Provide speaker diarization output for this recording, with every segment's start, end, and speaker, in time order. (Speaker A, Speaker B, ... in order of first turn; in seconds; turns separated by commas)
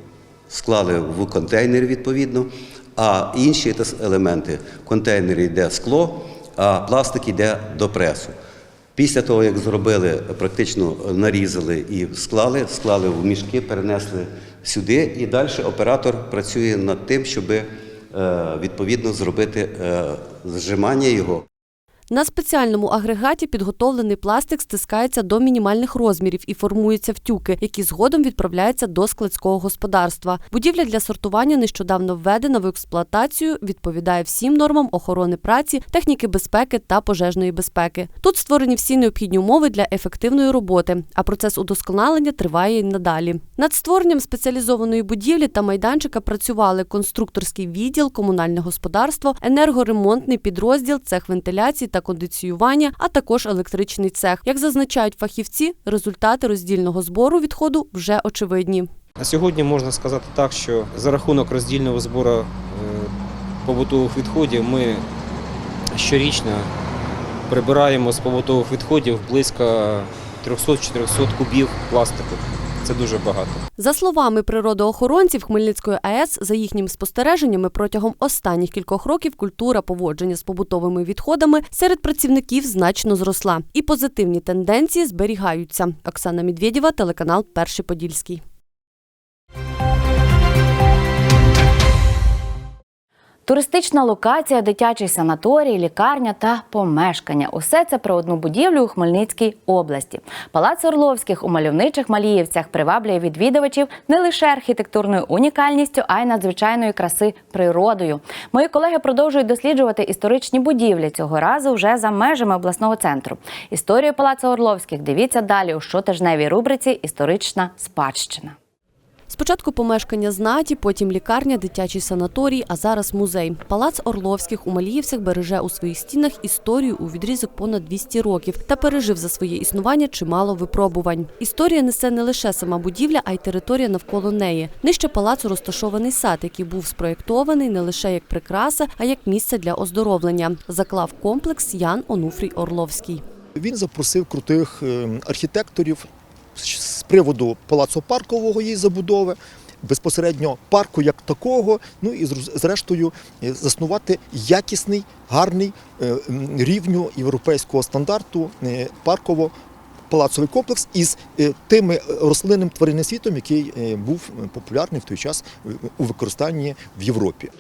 Speaker A: 0.5-8.3, Speaker A: 9.0-21.4, Speaker B: 22.1-58.9, Speaker C: 59.3-63.0, Speaker C: 63.7-65.0, Speaker C: 66.0-66.6, Speaker C: 67.5-72.3, Speaker C: 73.2-73.4, Speaker B: 73.8-88.4, Speaker D: 93.5-118.5, Speaker B: 119.3-143.2, Speaker E: 143.6-159.5, Speaker E: 160.1-167.5